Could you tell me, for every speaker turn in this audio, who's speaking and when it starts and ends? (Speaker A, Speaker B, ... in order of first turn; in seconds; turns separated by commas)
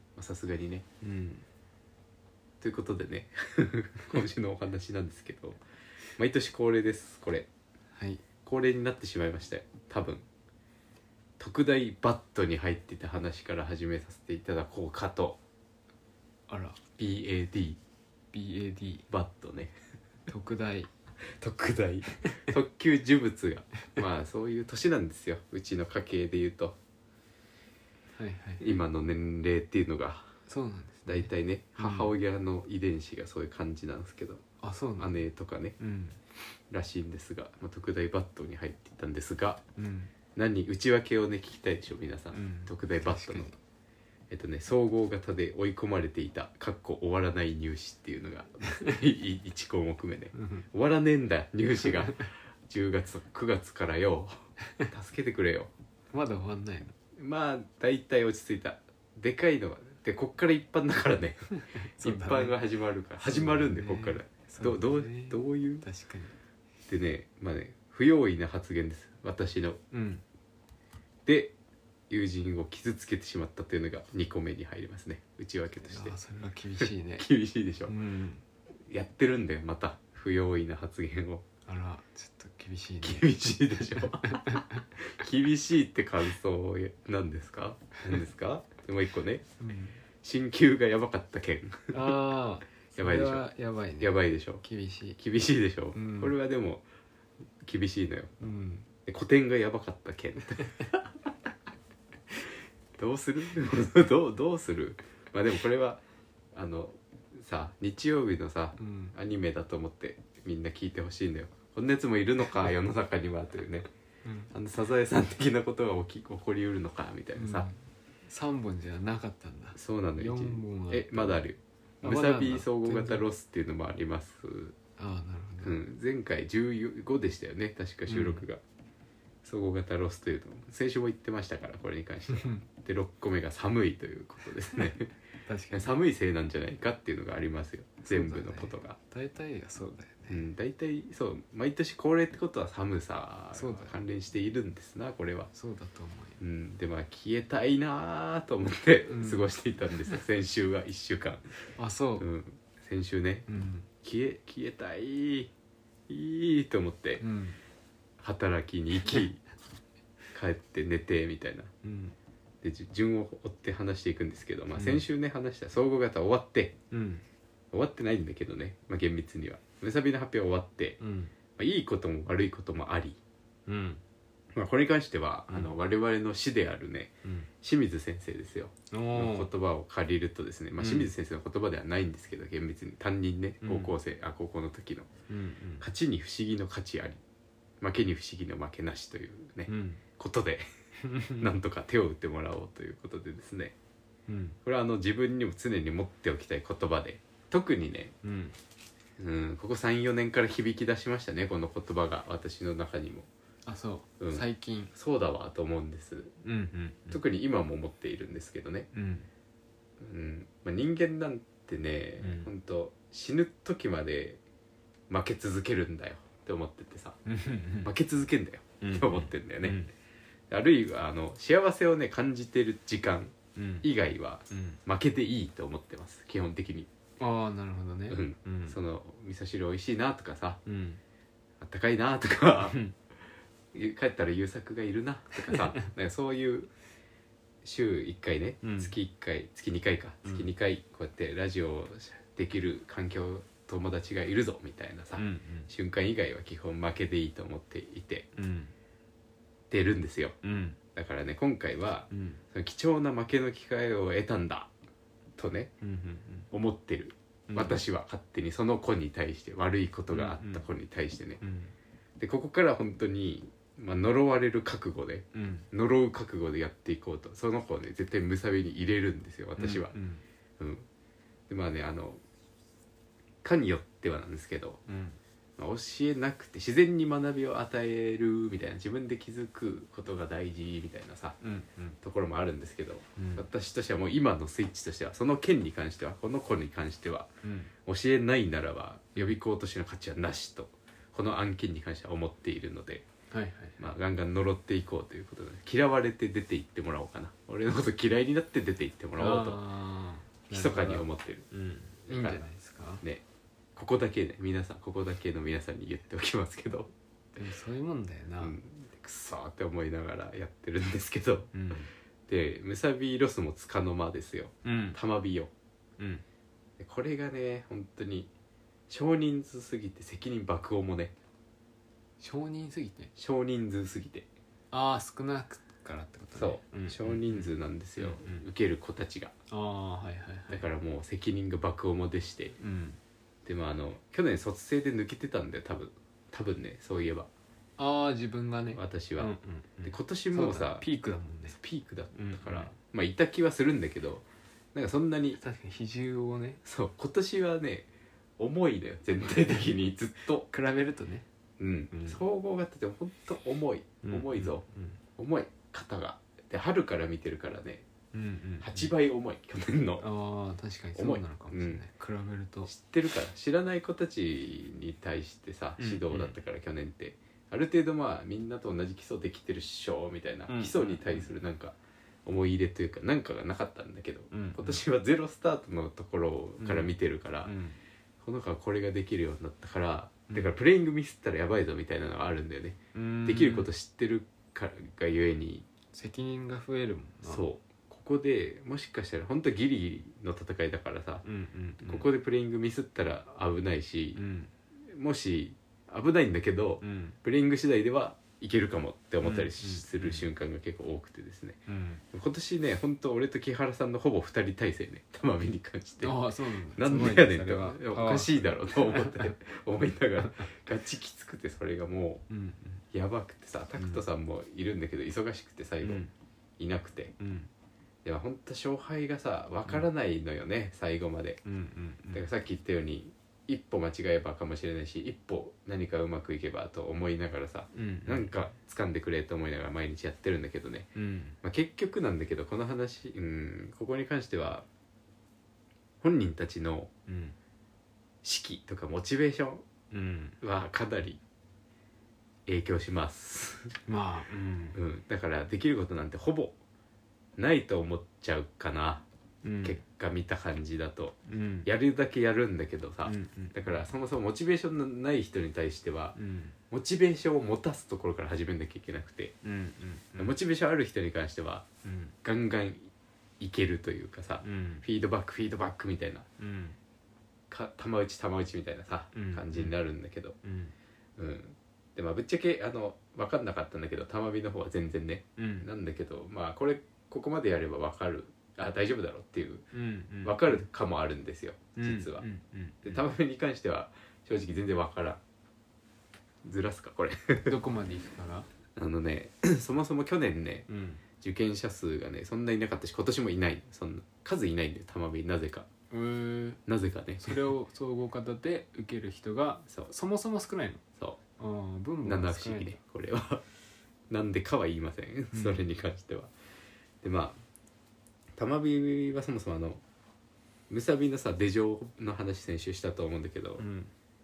Speaker A: 0.1-0.8, Speaker B: 1.0-1.4, Speaker A: 2.6-5.6, Speaker A: 6.2-7.5, Speaker B: 7.9-8.2, Speaker A: 8.4-10.2, Speaker A: 11.4-15.4, Speaker B: 16.5-16.8, Speaker A: 17.0-17.8, Speaker B: 18.3-19.1, Speaker A: 19.1-19.7, Speaker B: 20.3-20.9, Speaker A: 21.3-26.8, Speaker B: 28.1-28.6, Speaker A: 28.6-30.3, Speaker B: 30.5-32.1, Speaker A: 31.1-34.4, Speaker B: 34.6-35.2, Speaker A: 35.0-35.8, Speaker B: 35.8-36.2, Speaker A: 36.7-39.6, Speaker B: 39.8-40.1, Speaker A: 40.3-43.5, Speaker B: 42.3-43.6, Speaker A: 44.3-55.7, Speaker B: 50.3-50.6, Speaker B: 51.8-52.1, Speaker B: 56.1-56.9, Speaker A: 57.1-65.9, Speaker B: 61.5-62.6, Speaker B: 63.2-66.3, Speaker A: 66.9-69.8, Speaker B: 69.9-70.2, Speaker A: 71.2-71.5, Speaker A: 72.1-76.2, Speaker B: 75.8-77.3, Speaker A: 76.8-78.0, Speaker B: 77.9-78.4, Speaker A: 78.9-81.4, Speaker B: 81.7-84.8, Speaker A: 83.0-89.4, Speaker B: 89.6-90.0, Speaker A: 90.2-92.2, Speaker B: 91.9-95.2, Speaker A: 93.0-93.5, Speaker A: 94.0-94.6, Speaker A: 95.2-96.8, Speaker B: 95.9-96.3, Speaker A: 97.6-98.3, Speaker B: 98.4-98.9, Speaker A: 99.0-101.1, Speaker A: 103.0-106.0, Speaker A: 106.5-113.9, Speaker B: 108.8-109.1, Speaker B: 114.2-114.5, Speaker A: 114.5-117.7, Speaker B: 117.3-121.5, Speaker A: 119.8-124.7, Speaker B: 122.0-123.2, Speaker B: 125.0-125.7, Speaker A: 125.6-128.6, Speaker B: 128.1-128.4, Speaker A: 129.4-135.1, Speaker B: 132.3-132.6, Speaker B: 135.4-135.9, Speaker A: 135.7-139.0, Speaker B: 138.1-140.4, Speaker A: 140.3-145.5, Speaker B: 143.5-144.0, Speaker B: 145.5-146.4, Speaker A: 146.4-151.5, Speaker B: 149.1-149.4, Speaker B: 151.8-152.2, Speaker A: 152.2-155.5, Speaker B: 153.5-153.9, Speaker A: 156.1-157.2, Speaker B: 157.2-157.6, Speaker A: 158.2-159.4, Speaker A: 160.3-161.7, Speaker B: 161.8-162.1, Speaker A: 162.6-166.8, Speaker B: 164.7-165.0, Speaker B: 166.9-167.2, Speaker A: 167.7-171.0, Speaker B: 171.0-171.3, Speaker A: 171.6-173.2, Speaker B: 173.7-174.0, Speaker A: 174.5-185.1, Speaker B: 175.5-175.7, Speaker B: 178.9-179.5, Speaker B: 180.8-181.1, Speaker B: 183.6-183.9, Speaker B: 185.3-185.8, Speaker A: 185.8-187.2, Speaker A: 187.8-190.6, Speaker B: 189.7-190.0, Speaker B: 191.0-191.5, Speaker A: 191.3-193.7, Speaker B: 194.3-194.6, Speaker A: 194.6-198.1, Speaker B: 198.2-198.6, Speaker A: 199.2-203.3, Speaker B: 203.7-204.9, Speaker A: 204.2-206.3, Speaker B: 206.4-207.2, Speaker A: 207.1-208.9, Speaker B: 208.9-209.3, Speaker A: 210.0-214.4, Speaker B: 212.2-212.5, Speaker A: 215.1-217.2, Speaker B: 217.2-217.9, Speaker A: 217.8-219.8, Speaker B: 218.8-219.9, Speaker A: 220.5-226.9, Speaker B: 223.5-223.9, Speaker B: 224.5-224.8, Speaker B: 227.2-228.8, Speaker A: 228.1-230.6, Speaker B: 230.7-231.0, Speaker A: 231.6-232.8, Speaker B: 232.6-232.9, Speaker A: 233.7-236.7, Speaker B: 235.4-235.8, Speaker A: 237.6-248.3, Speaker B: 238.6-238.9, Speaker B: 245.2-245.7, Speaker B: 248.3-248.7, Speaker A: 249.7-250.4, Speaker B: 250.4-250.8, Speaker A: 250.9-254.7, Speaker B: 252.1-252.4, Speaker A: 255.4-255.7, Speaker B: 255.8-256.5, Speaker A: 256.5-261.4, Speaker B: 257.5-257.8, Speaker B: 260.1-260.6, Speaker B: 261.4-261.7, Speaker A: 262.2-269.9, Speaker B: 265.3-265.6, Speaker B: 269.6-270.2, Speaker A: 270.6-270.9, Speaker A: 271.5-272.2, Speaker A: 273.4-274.8, Speaker B: 274.9-275.2, Speaker A: 275.6-281.4, Speaker B: 281.4-282.0, Speaker A: 282.0-287.3, Speaker B: 283.1-283.4, Speaker B: 287.4-287.7, Speaker A: 287.9-293.1, Speaker B: 293.3-293.8, Speaker A: 293.8-299.6, Speaker B: 299.2-303.0, Speaker A: 300.5-301.4, Speaker A: 302.1-302.4, Speaker A: 303.8-306.9, Speaker B: 307.4-308.6, Speaker A: 308.4-311.5, Speaker B: 311.5-311.9, Speaker A: 312.3-315.5, Speaker B: 314.6-315.0, Speaker B: 316.0-316.2, Speaker A: 316.8-318.3, Speaker A: 318.9-321.1, Speaker B: 322.2-323.1, Speaker A: 323.1-324.3, Speaker B: 324.7-328.4, Speaker A: 326.4-329.3, Speaker B: 329.5-330.7, Speaker A: 330.5-332.6, Speaker B: 332.6-333.0, Speaker A: 333.4-337.3, Speaker B: 337.8-341.6, Speaker A: 338.7-340.8, Speaker A: 341.5-345.4, Speaker B: 342.1-342.7, Speaker B: 345.4-346.6, Speaker A: 346.6-347.9, Speaker A: 348.4-350.5, Speaker B: 350.5-351.2, Speaker A: 351.6-354.6, Speaker B: 351.9-352.2, Speaker B: 354.0-355.0, Speaker A: 355.2-357.9, Speaker B: 358.1-358.9, Speaker A: 358.6-360.1, Speaker B: 360.0-362.7, Speaker A: 360.9-361.8, Speaker A: 362.6-377.5, Speaker B: 365.8-366.4, Speaker B: 370.5-371.3, Speaker B: 374.3-374.8, Speaker B: 376.6-377.8, Speaker A: 378.2-385.6, Speaker B: 380.3-380.6, Speaker B: 382.9-383.7, Speaker B: 385.9-387.4, Speaker A: 387.2-391.2, Speaker B: 391.2-392.1, Speaker A: 391.8-394.2, Speaker B: 394.1-394.5, Speaker A: 394.9-412.2, Speaker B: 396.8-397.2, Speaker B: 399.2-400.2, Speaker B: 401.7-402.0, Speaker B: 406.0-409.3, Speaker B: 410.2-410.5, Speaker B: 412.3-412.8, Speaker A: 412.9-416.0, Speaker B: 413.8-414.0, Speaker B: 415.8-416.1, Speaker A: 416.6-417.1, Speaker B: 417.2-417.5, Speaker A: 418.0-421.4, Speaker B: 421.4-422.3, Speaker A: 422.1-430.9, Speaker B: 427.7-428.3, Speaker B: 430.9-431.4, Speaker A: 431.4-434.6, Speaker A: 436.0-436.9, Speaker B: 437.1-437.4, Speaker A: 438.2-439.6, Speaker B: 439.9-440.4, Speaker A: 440.4-441.2, Speaker A: 442.5-443.8, Speaker B: 443.9-444.8, Speaker A: 444.7-446.6, Speaker A: 447.4-449.1, Speaker B: 449.4-449.8, Speaker A: 449.6-456.2, Speaker B: 451.3-451.7, Speaker B: 453.0-453.8, Speaker B: 456.1-456.6, Speaker A: 456.7-459.3, Speaker B: 459.4-460.3, Speaker A: 460.1-461.7, Speaker B: 461.8-462.1, Speaker A: 462.2-466.3, Speaker B: 464.4-464.9, Speaker B: 466.4-466.8, Speaker A: 467.5-470.4, Speaker B: 469.1-469.7, Speaker B: 470.4-470.7, Speaker A: 471.2-479.6, Speaker B: 475.4-475.7, Speaker B: 479.7-480.6, Speaker A: 480.2-482.2, Speaker B: 481.8-483.1, Speaker A: 482.8-485.2, Speaker A: 486.4-487.6, Speaker B: 487.4-488.5, Speaker A: 488.8-490.7, Speaker B: 490.7-491.0, Speaker A: 491.2-495.7, Speaker B: 495.9-496.6, Speaker A: 496.6-497.5, Speaker B: 497.2-500.8, Speaker B: 501.4-502.8, Speaker A: 502.0-503.4, Speaker A: 504.1-506.3, Speaker B: 505.3-505.6, Speaker A: 507.0-507.4, Speaker A: 508.4-509.8, Speaker A: 510.7-513.6, Speaker B: 513.6-513.9